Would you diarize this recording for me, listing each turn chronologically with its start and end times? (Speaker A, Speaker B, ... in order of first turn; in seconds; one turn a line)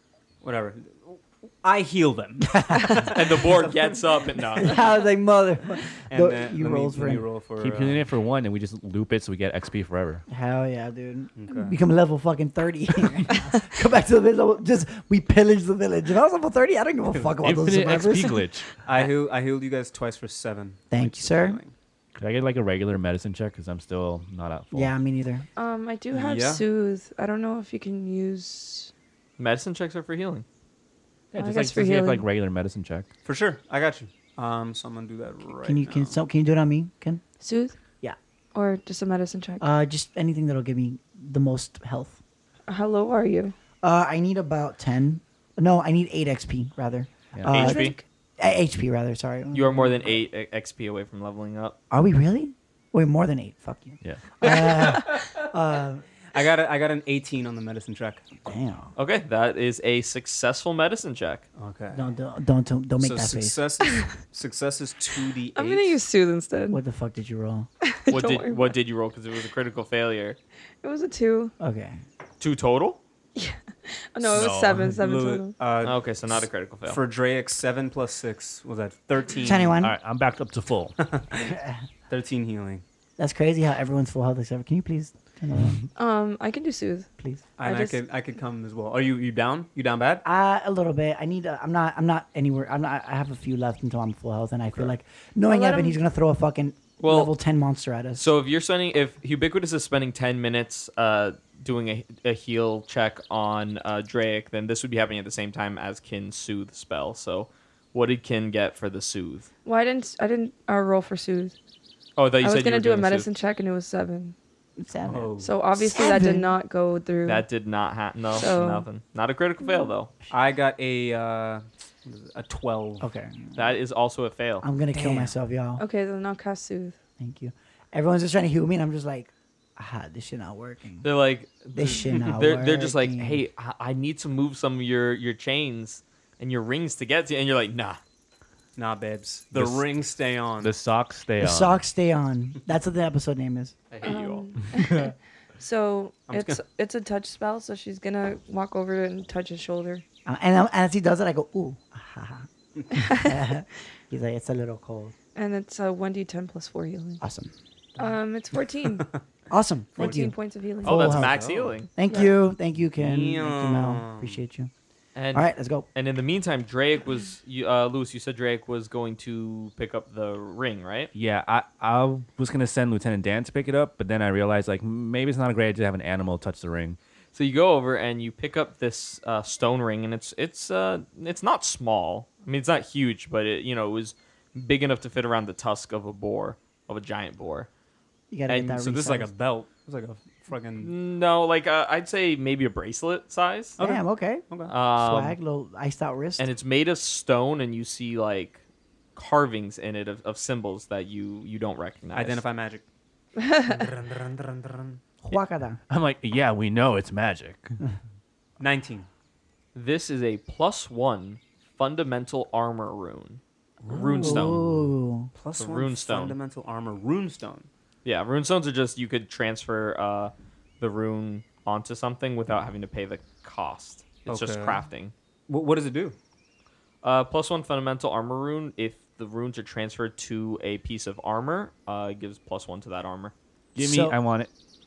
Speaker A: 0.4-4.0
Speaker B: 2.5-3.1
Speaker C: 3.1-4.8
Speaker B: 4.6-7.2
Speaker A: 6.1-8.1
Speaker D: 7.6-10.2
Speaker B: 10.3-18.4
Speaker A: 11.3-11.8
Speaker A: 17.1-17.4
Speaker D: 17.4-18.8
Speaker A: 18.8-21.7
Speaker B: 20.9-21.6
Speaker D: 22.2-24.9
Speaker B: 24.7-25.4
Speaker E: 25.6-28.9
Speaker A: 26.1-26.6
Speaker C: 29.4-30.4
Speaker D: 31.3-33.1
Speaker E: 31.4-32.3
Speaker A: 33.2-35.7
Speaker C: 35.5-36.2
Speaker B: 35.6-37.2
Speaker E: 37.4-37.8
Speaker E: 38.5-39.7
Speaker B: 39.6-42.2
Speaker E: 42.7-43.5
Speaker B: 43.8-50.2
Speaker D: 47.4-47.8
Speaker C: 47.5-48.0
Speaker E: 47.6-48.0
Speaker C: 49.5-51.8
Speaker B: 51.9-56.0
Speaker D: 54.0-54.3
Speaker A: 54.4-55.4
Speaker A: 56.3-58.3
Speaker B: 58.5-58.9
Speaker C: 59.0-61.5
Speaker A: 61.6-62.1
Speaker B: 61.9-63.6
Speaker A: 63.0-66.0
Speaker E: 65.5-66.8
Speaker B: 66.7-67.7
Speaker E: 67.8-68.7
Speaker C: 68.1-70.4
Speaker E: 70.8-71.5
Speaker B: 71.6-72.0
Speaker C: 72.4-73.0
Speaker E: 73.4-75.5
Speaker D: 74.2-75.0
Speaker A: 74.7-79.8
Speaker C: 75.8-77.0
Speaker B: 79.4-80.0
Speaker D: 79.8-81.0
Speaker A: 81.0-81.6
Speaker B: 81.5-81.8
Speaker A: 82.1-82.8
Speaker B: 83.2-85.8
Speaker E: 86.0-87.1
Speaker A: 87.6-90.2
Speaker E: 87.6-88.0
Speaker B: 90.2-98.3
Speaker E: 95.5-96.0
Speaker C: 97.0-97.3
Speaker C: 98.2-109.5
Speaker E: 109.7-111.6
Speaker C: 112.2-113.3
Speaker E: 112.4-114.3
Speaker B: 114.8-116.5
Speaker A: 115.1-115.5
Speaker E: 115.4-117.5
Speaker C: 117.3-120.1
Speaker E: 118.3-118.9
Speaker A: 120.3-123.1
Speaker B: 123.0-123.6
Speaker C: 123.5-124.7
Speaker B: 124.6-125.8
Speaker A: 124.9-125.3
Speaker E: 125.8-127.0
Speaker B: 127.2-131.1
Speaker C: 131.0-138.0
Speaker B: 131.8-133.4
Speaker A: 131.9-132.3
Speaker A: 138.8-140.8
Speaker D: 139.5-139.9
Speaker D: 140.6-141.8
Speaker B: 141.4-143.8
Speaker C: 143.9-144.5
Speaker E: 144.0-150.0
Speaker D: 144.7-145.1
Speaker A: 146.3-146.6
Speaker B: 150.3-152.5
Speaker E: 152.9-153.3
Speaker B: 153.1-155.1
Speaker E: 155.3-157.2
Speaker B: 157.2-157.5
Speaker E: 158.0-159.1
Speaker B: 159.5-161.3
Speaker E: 160.0-161.2
Speaker C: 160.8-161.9
Speaker A: 161.0-161.8
Speaker B: 162.0-164.7
Speaker E: 162.1-162.3
Speaker A: 163.0-164.4
Speaker C: 165.2-171.1
Speaker B: 165.3-165.9
Speaker D: 171.1-177.0
Speaker C: 177.3-187.7
Speaker B: 188.3-189.3
Speaker C: 188.5-188.8
Speaker A: 188.7-190.9
Speaker C: 190.8-193.8
Speaker A: 193.8-194.7
Speaker B: 193.8-196.5
Speaker C: 194.7-195.4
Speaker C: 196.4-198.6
Speaker C: 199.2-202.4
Speaker A: 202.2-202.8
Speaker E: 203.4-203.8
Speaker A: 203.7-205.0
Speaker B: 205.2-205.8
Speaker D: 205.9-207.8
Speaker A: 208.6-209.1
Speaker C: 209.8-214.7
Speaker A: 213.8-214.6
Speaker B: 214.2-215.3
Speaker A: 215.3-217.7
Speaker C: 215.6-216.4
Speaker C: 218.1-225.1
Speaker A: 224.3-224.8
Speaker A: 225.5-226.2
Speaker C: 227.0-233.3
Speaker D: 233.8-234.5
Speaker B: 233.8-234.2